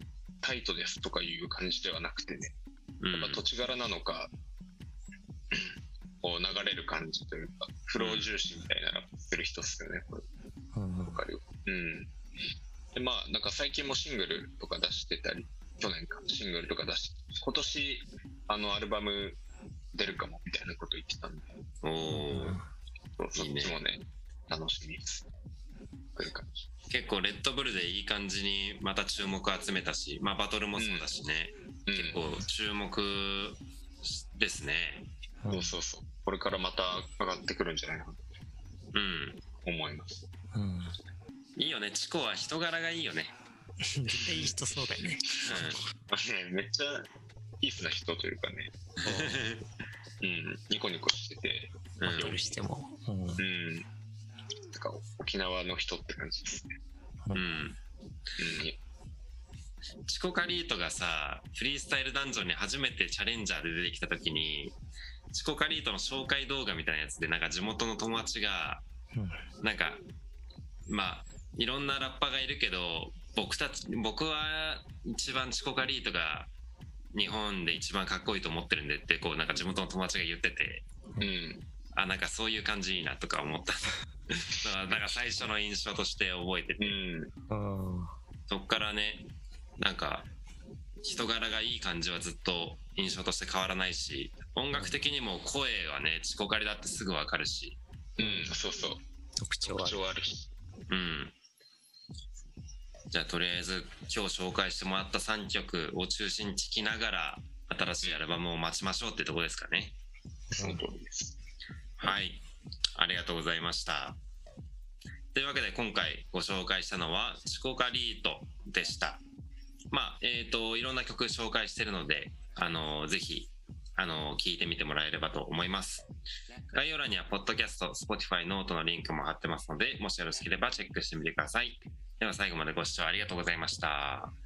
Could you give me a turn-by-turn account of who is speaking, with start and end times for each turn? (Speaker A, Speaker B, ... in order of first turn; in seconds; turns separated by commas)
Speaker A: 0.4-2.5, Speaker B: 3.0-3.5, Speaker A: 3.1-4.3, Speaker A: 5.5-10.3, Speaker B: 8.0-8.3, Speaker C: 10.7-11.2, Speaker A: 11.0-12.1, Speaker A: 12.9-19.4, Speaker A: 19.9-21.5, Speaker B: 21.8-22.6, Speaker C: 22.1-22.6, Speaker A: 23.1-25.3, Speaker B: 23.4-23.8, Speaker A: 26.2-26.7, Speaker B: 26.9-35.1, Speaker A: 30.8-31.1, Speaker A: 31.9-32.2, Speaker C: 35.4-35.8, Speaker A: 35.5-38.2, Speaker B: 38.9-39.4, Speaker A: 39.6-40.2, Speaker C: 40.5-41.0, Speaker B: 41.6-43.3, Speaker C: 43.8-45.8, Speaker B: 45.5-45.8, Speaker A: 45.5-47.1, Speaker A: 47.6-48.7, Speaker B: 49.0-49.6, Speaker C: 49.0-49.4, Speaker A: 50.2-52.3, Speaker B: 52.0-52.4, Speaker C: 52.0-53.4, Speaker A: 53.4-53.9, Speaker A: 54.7-56.8, Speaker B: 57.3-57.8, Speaker A: 58.4-58.8, Speaker B: 60.1-64.8, Speaker B: 65.3-68.8, Speaker C: 69.1-69.5, Speaker B: 69.6-70.0, Speaker B: 70.9-76.5, Speaker B: 77.1-80.8, Speaker A: 81.2-81.6, Speaker B: 81.9-87.0, Speaker A: 86.8-87.3, Speaker C: 87.5-88.2, Speaker B: 88.5-89.3, Speaker B: 89.8-90.3, Speaker B: 91.0-97.8, Speaker C: 94.7-95.0, Speaker A: 98.2-99.0, Speaker C: 98.2-98.6, Speaker C: 99.4-100.0, Speaker A: 99.6-100.5, Speaker B: 100.9-101.3, Speaker B: 103.1-110.0, Speaker C: 110.5-110.8, Speaker A: 110.5-111.4, Speaker B: 112.0-112.4, Speaker B: 113.0-114.2, Speaker B: 115.3-119.2, Speaker B: 119.9-126.1, Speaker B: 126.7-134.3